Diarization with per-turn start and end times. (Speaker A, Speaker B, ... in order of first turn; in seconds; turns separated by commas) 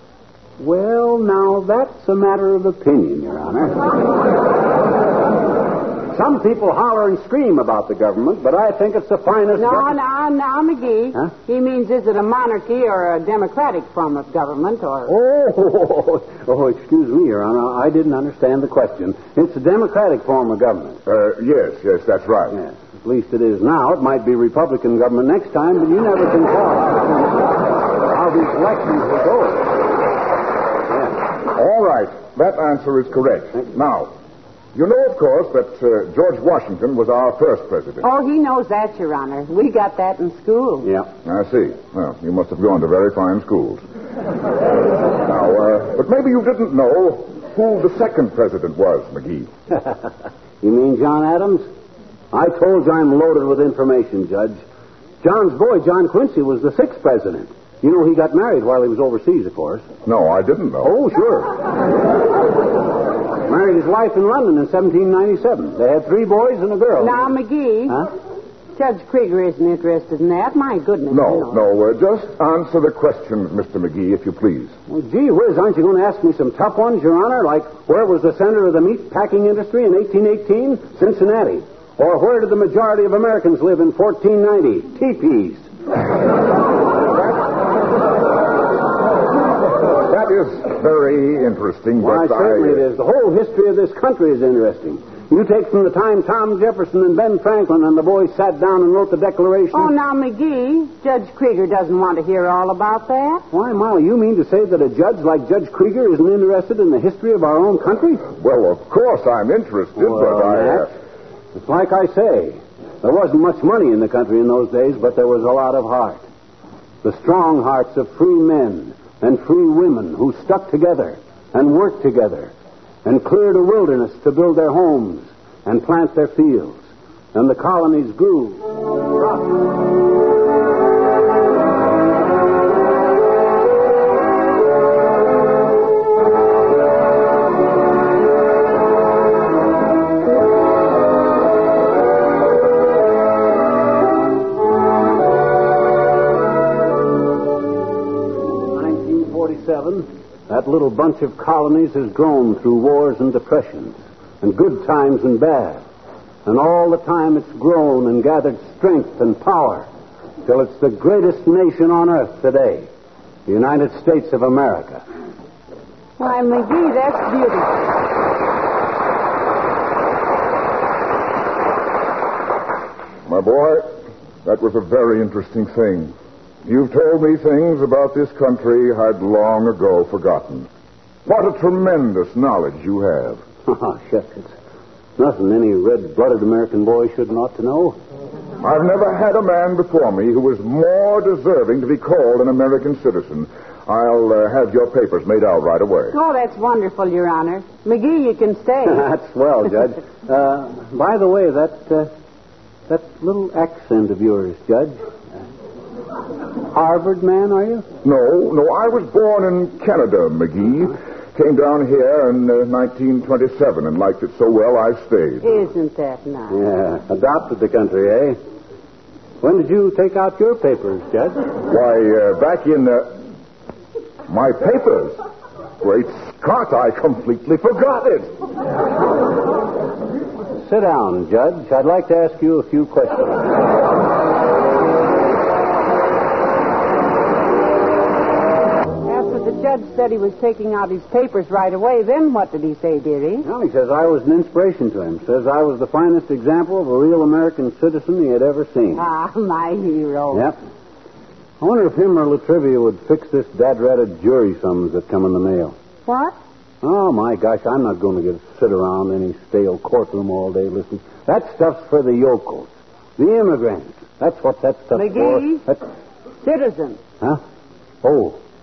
Speaker A: 0.6-3.8, Speaker A: 6.1-9.9, Speaker B: 9.6-15.1, Speaker A: 15.1-21.0, Speaker C: 21.1-22.6, Speaker A: 22.5-27.5, Speaker A: 28.1-29.7, Speaker C: 31.5-34.1, Speaker C: 34.7-38.0, Speaker B: 38.0-40.9, Speaker A: 40.8-41.1, Speaker C: 41.2-43.8, Speaker C: 45.2-49.5, Speaker A: 50.6-51.6, Speaker A: 52.3-54.6, Speaker A: 55.2-59.9, Speaker C: 60.0-60.9, Speaker A: 60.8-61.5, Speaker A: 63.5-67.2, Speaker B: 67.0-68.1, Speaker B: 68.8-71.6, Speaker C: 71.1-74.7, Speaker A: 74.9-85.7, Speaker C: 90.0-92.8, Speaker A: 92.0-99.9, Speaker B: 99.7-103.4, Speaker A: 103.5-108.2, Speaker C: 108.3-110.9, Speaker A: 110.0-110.9, Speaker A: 111.5-116.2, Speaker A: 117.0-122.5, Speaker A: 123.0-126.8, Speaker A: 127.3-128.7, Speaker A: 148.7-155.8, Speaker A: 156.4-159.9, Speaker A: 160.4-162.9, Speaker A: 163.5-165.0, Speaker B: 166.2-168.0, Speaker C: 173.3-173.9, Speaker C: 174.4-176.1, Speaker C: 176.6-180.7, Speaker C: 181.2-183.4, Speaker A: 183.7-184.5, Speaker A: 185.2-188.0, Speaker C: 188.6-196.2, Speaker B: 196.1-199.0, Speaker A: 198.8-202.1, Speaker A: 202.9-205.0, Speaker A: 206.7-207.8, Speaker C: 208.0-215.6, Speaker B: 215.4-216.6, Speaker A: 216.5-218.4, Speaker A: 219.4-221.4, Speaker C: 221.7-223.1, Speaker C: 224.3-225.2, Speaker C: 225.8-228.3, Speaker A: 230.6-233.5, Speaker B: 239.0-243.5, Speaker A: 243.4-249.0, Speaker B: 248.9-250.5, Speaker A: 251.6-255.7, Speaker B: 256.1-256.4, Speaker A: 256.8-265.8, Speaker B: 264.9-265.6, Speaker B: 266.4-267.0, Speaker A: 268.0-268.4